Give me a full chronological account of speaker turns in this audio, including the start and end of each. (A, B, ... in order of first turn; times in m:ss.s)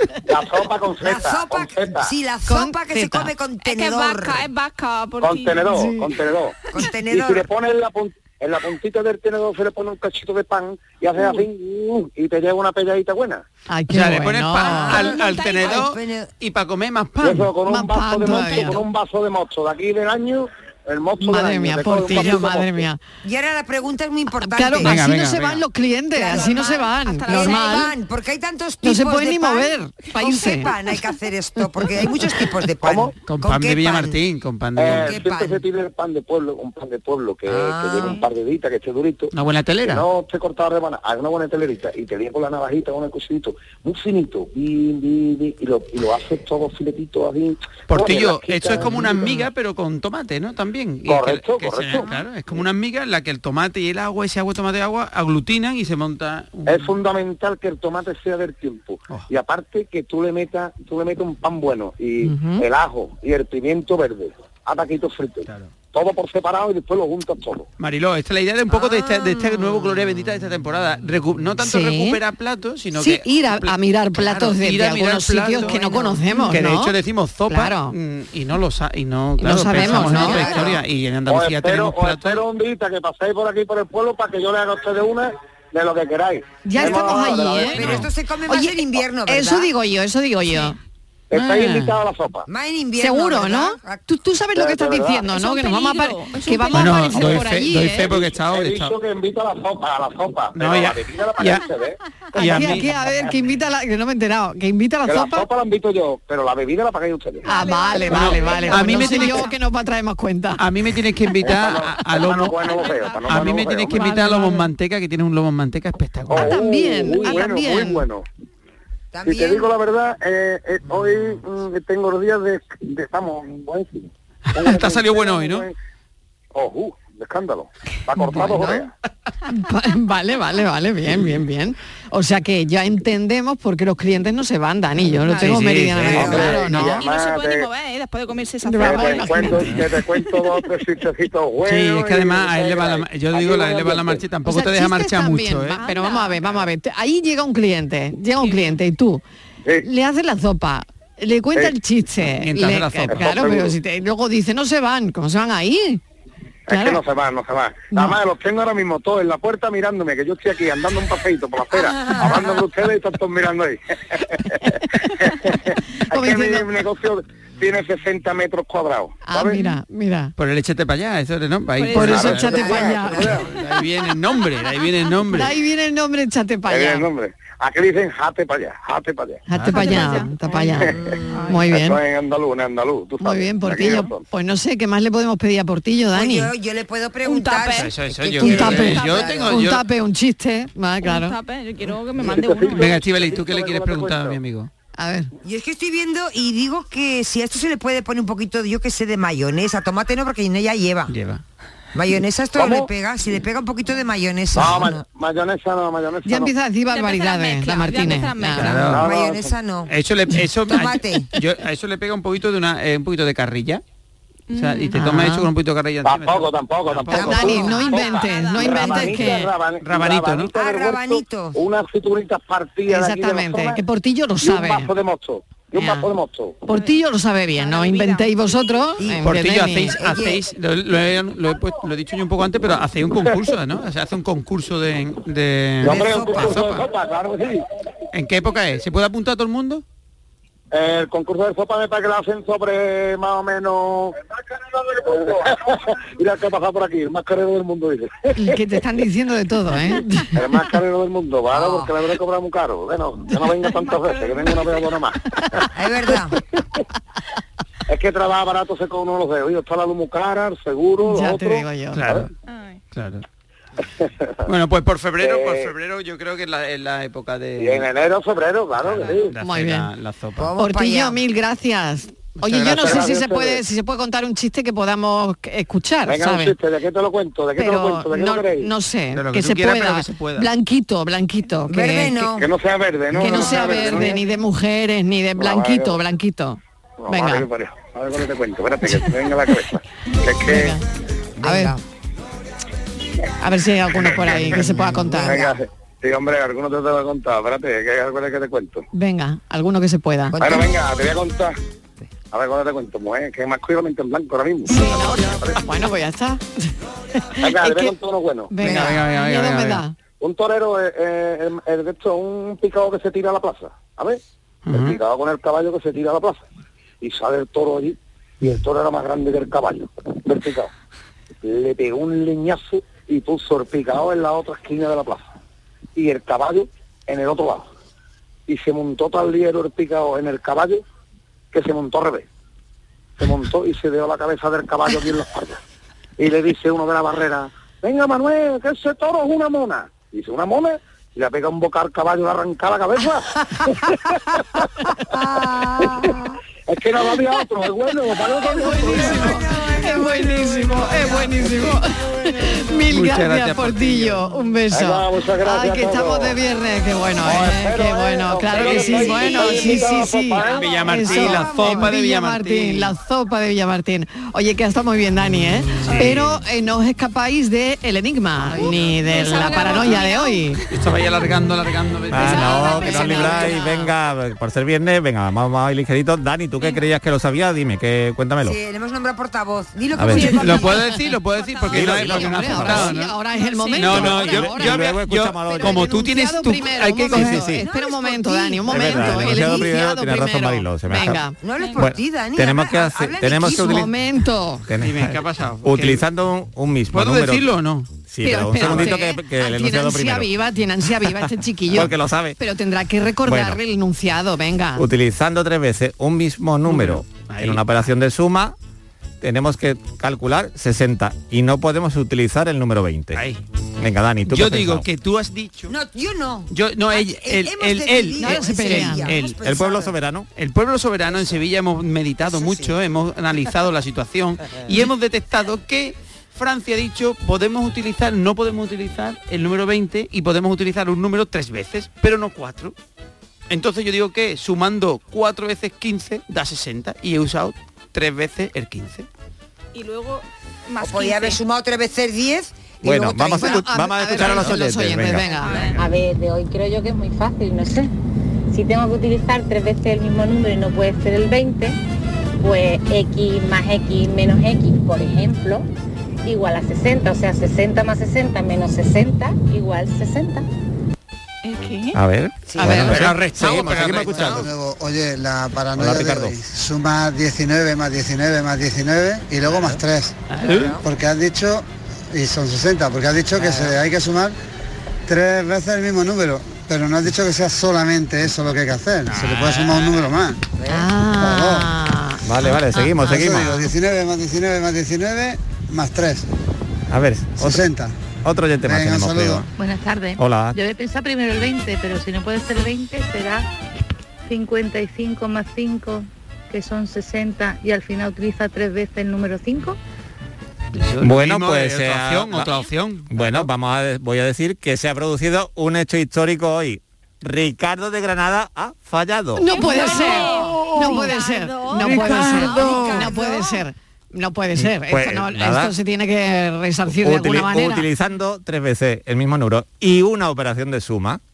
0:00.3-0:02.1 A
0:01.0-0:04.4 B
0:02.4-0:03.3 C
0:03.6-0:05.9 D
0:05.2-0:06.6 A
0:05.7-0:06.2 C
0:06.7-0:07.5 B
0:07.1-0:13.4 A
0:13.7-0:15.0 C
0:13.9-0:17.5 E
0:14.6-0:16.3 B
0:14.8-0:15.9 D
0:17.2-0:22.8 A
0:17.7-0:18.8 C
0:21.2-0:23.0 C
0:22.1-0:22.4 B
0:23.2-0:25.0 B
0:24.4-0:27.9 C
0:24.8-0:25.6 E
0:26.2-0:26.5 B
0:26.2-0:27.9 D
0:27.3-0:34.2 B
0:28.8-0:30.7 C
0:32.8-0:33.1 A
0:33.2-0:35.2 E
0:34.8-0:39.3 A
0:34.8-0:35.6 B
0:37.4-0:38.2 B
0:39.3-0:40.0 E
0:39.8-0:49.5 A
0:47.9-0:57.0 E
0:51.0-0:52.0 A
0:56.6-1:07.7 A
1:02.2-1:02.6 C
1:07.8-1:22.4 E
1:08.7-1:09.2 B
1:09.3-1:09.8 D
1:11.6-1:12.2 C
1:12.9-1:16.9 C
1:16.3-1:16.6 D
1:17.5-1:17.9 C
1:19.4-1:20.6 C
1:20.0-1:20.8 B
1:21.3-1:27.9 A
1:26.6-1:30.8 C
1:26.8-1:27.9 D
1:27.6-1:29.7 B
1:27.8-1:28.1 E
1:30.4-1:30.7 D
1:31.3-1:32.4 A
1:32.4-1:34.0 B
1:33.0-1:38.1 C
1:34.5-1:35.3 A
1:35.3-1:37.9 D
1:36.7-1:39.0 E
1:38.0-1:42.0 A
1:40.5-1:41.7 E
1:42.3-1:42.9 E
1:42.3-1:45.5 C
1:45.0-1:47.4 A
1:47.4-1:49.5 D
1:47.4-1:50.6 C
1:48.1-1:49.5 E
1:50.6-1:56.6 E
1:51.4-1:53.9 A
1:52.7-1:53.2 D
1:53.9-1:54.6 C
1:56.3-1:58.2 A
1:56.3-1:58.0 C
1:59.1-1:59.7 B
1:59.2-2:05.7 A
2:04.5-2:05.7 E
2:06.5-2:08.9 A
2:08.4-2:08.9 B
2:09.5-2:16.9 C
2:15.1-2:20.6 D
2:15.2-2:17.0 E
2:16.2-2:17.7 A
2:18.6-2:19.9 C
2:18.8-2:24.2 A
2:21.6-2:25.8 E
2:24.4-2:29.2 C
2:25.8-2:26.4 D
2:28.4-2:28.8 D
2:29.8-2:36.0 C
2:32.4-2:33.4 E
2:33.1-2:33.7 A
2:36.7-2:49.6 A
2:36.7-2:37.0 C
2:37.9-2:38.2 C
2:41.7-2:42.7 B
2:46.1-2:46.7 C
2:49.2-2:50.3 C
2:49.5-2:49.8 D
2:50.4-2:52.8 E
2:51.8-2:52.6 D
2:51.9-2:53.4 C
2:52.4-2:53.5 B
2:52.4-2:53.4 A
2:53.3-2:55.5 E
2:55.3-2:57.1 C
2:56.7-2:59.4 A
2:59.5-3:00.9 C
2:59.5-3:00.2 E
2:59.6-3:01.7 D
3:01.4-3:02.0 C
3:01.7-3:04.2 A
3:03.2-3:06.5 C
3:06.1-3:09.5 B
3:07.2-3:07.9 D
3:07.7-3:09.8 E
3:08.4-3:11.4 C
3:09.0-3:09.3 D
3:11.0-3:13.1 D
3:12.2-3:14.4 A
3:12.7-3:14.7 E
3:15.0-3:15.3 C
3:15.4-3:21.1 B
3:21.1-3:21.4 E
3:21.9-3:25.0 B
3:22.5-3:22.9 A
3:24.5-3:26.5 A
3:26.2-3:29.0 C
3:26.9-3:28.9 D
3:28.6-3:29.1 E
3:28.9-3:29.5 A
3:29.0-3:29.9 B
3:29.9-3:33.8 E
3:30.6-3:31.3 B
3:34.5-3:34.9 D
3:34.5-3:37.8 E
3:34.9-3:35.5 C
3:36.0-3:43.8 A
3:37.1-3:39.5 C
3:37.1-3:37.8 B
3:37.6-3:39.3 D
3:39.8-3:40.5 E
3:40.5-3:41.6 B
3:42.9-3:44.9 C
3:44.4-3:46.6 A
3:45.7-3:46.1 C
3:46.6-3:50.2 C
3:46.7-3:47.0 D
3:47.5-3:48.7 D
3:49.0-3:50.4 B
3:49.2-3:56.8 E
3:55.8-3:56.7 B
3:55.8-3:57.6 A
3:58.1-3:59.8 E
4:00.7-4:04.2 A
4:04.8-4:08.6 A
4:08.4-4:10.4 C
4:10.3-4:15.2 A
4:11.5-4:12.1 B
4:13.7-4:14.8 D
4:15.7-4:16.4 B
4:17.9-4:22.2 A
4:21.0-4:22.0 C
4:21.9-4:22.3 E
4:22.5-4:22.8 D
4:22.9-4:23.2 E
4:24.0-4:24.4 A
4:24.4-4:27.9 E
4:25.2-4:25.7 A
4:27.6-4:29.3 A
4:28.8-4:30.5 E
4:29.0-4:29.3 D
4:29.4-4:29.9 C
4:30.4-4:31.2 B
4:30.6-4:36.6 C
4:32.4-4:33.0 E
4:32.6-4:33.6 A
4:36.0-4:38.7 A
4:37.6-4:42.2 C
4:39.1-4:40.5 E
4:41.7-4:42.5 B
4:42.3-4:44.2 A
4:43.1-4:44.0 B
4:43.1-4:47.4 C
4:45.4-4:46.0 A
4:47.0-4:50.7 A
4:50.4-4:50.8 C
4:51.4-4:51.8 B
4:51.4-4:51.8 C
4:53.4-4:55.6 C
4:54.0-4:58.8 A
4:58.9-5:00.6 C
5:00.3-5:00.7 B
5:00.4-5:01.5 A
5:02.3-5:05.7 A
5:04.6-5:06.4 C
5:07.3-5:07.9 C
5:07.4-5:08.6 A
5:08.5-5:09.9 C
5:08.6-5:09.8 E
5:10.2-5:14.2 A
5:14.6-5:15.0 E
5:14.7-5:16.4 A
5:17.0-5:20.7 A
5:21.4-5:25.2 A
5:26.0-5:27.7 A
5:28.5-5:30.8 A
5:31.5-5:32.2 A
5:33.2-5:35.6 A
5:36.2-5:44.6 A
5:45.1-5:46.3 C
5:45.8-5:46.1 A
5:46.7-5:49.2 A
5:48.3-6:10.6 C
5:49.0-5:51.6 D
5:52.9-5:54.2 E
5:54.7-5:56.4 A
5:57.2-6:00.7 A
5:58.5-6:02.9 E
6:00.9-6:01.8 B
6:05.8-6:06.3 E
6:08.6-6:09.9 E
6:08.6-6:10.9 D
6:10.7-6:13.8 E
6:12.1-6:18.6 F
6:12.2-6:13.9 D
6:12.2-6:13.6 C
6:16.5-6:16.9 D
6:18.4-6:20.8 B
6:20.0-6:20.4 F
6:20.1-6:24.5 D
6:20.2-6:23.1 E
6:21.7-6:22.9 F
6:22.0-6:24.8 C
6:23.7-6:27.7 E
6:23.8-6:26.0 F
6:25.5-6:25.8 D
6:25.6-6:31.4 C
6:27.1-6:27.6 F
6:27.5-6:29.6 D
6:28.7-6:33.9 F
6:31.3-6:33.9 B
6:31.5-6:31.9 D
6:33.4-6:34.6 C
6:34.6-6:37.5 F
6:34.8-6:36.0 E
6:36.9-6:37.9 E
6:38.1-6:40.3 F
6:38.2-6:44.9 C
6:38.5-6:38.9 E
6:41.7-6:42.4 F
6:43.2-6:43.6 F
6:44.8-6:48.5 F
6:46.6-6:47.6 E
6:49.2-6:53.2 F
6:53.1-6:53.4 E
6:53.8-6:54.8 F
6:54.3-6:55.7 E
6:55.7-7:00.0 B
6:56.5-6:59.4 E
6:58.2-6:59.1 C
6:59.4-7:00.3 F
7:00.4-7:12.7 E
7:01.0-7:01.4 B
7:02.2-7:02.8 B
7:13.5-7:19.1 E
7:19.7-7:21.4 D
7:20.8-7:23.7 B
7:22.8-7:25.3 F
7:23.3-7:25.7 C
7:25.3-7:25.9 D
7:25.8-7:27.9 G
7:28.5-7:31.8 G
7:32.4-7:35.7 G
7:36.2-7:40.5 G
7:41.4-7:42.0 D
7:41.9-7:44.4 F
7:42.4-7:43.1 B
7:42.6-7:43.2 C
7:42.8-7:44.5 E
7:44.1-7:50.2 H
7:45.7-7:46.4 F
7:50.3-7:50.8 E
7:50.4-7:50.9 B
7:50.8-7:54.4 H
7:55.1-8:00.4 H
7:59.1-8:00.1 E
8:00.6-8:00.9 B
8:00.7-8:03.2 C
8:01.2-8:01.7 H
8:02.2-8:03.6 F
8:03.0-8:06.3 H
8:06.9-8:07.6 F
8:07.4-8:07.9 H
8:08.2-8:09.5 F
8:08.6-8:09.4 H
8:09.6-8:13.5 G
8:10.2-8:10.6 F
8:14.3-8:19.8 G
8:20.7-8:23.5 E
8:21.0-8:22.5 F
8:23.1-8:29.5 F
8:29.4-8:37.9 C
8:29.4-8:33.4 D
8:32.9-8:33.3 B
8:34.6-8:35.7 F
8:37.0-8:41.2 F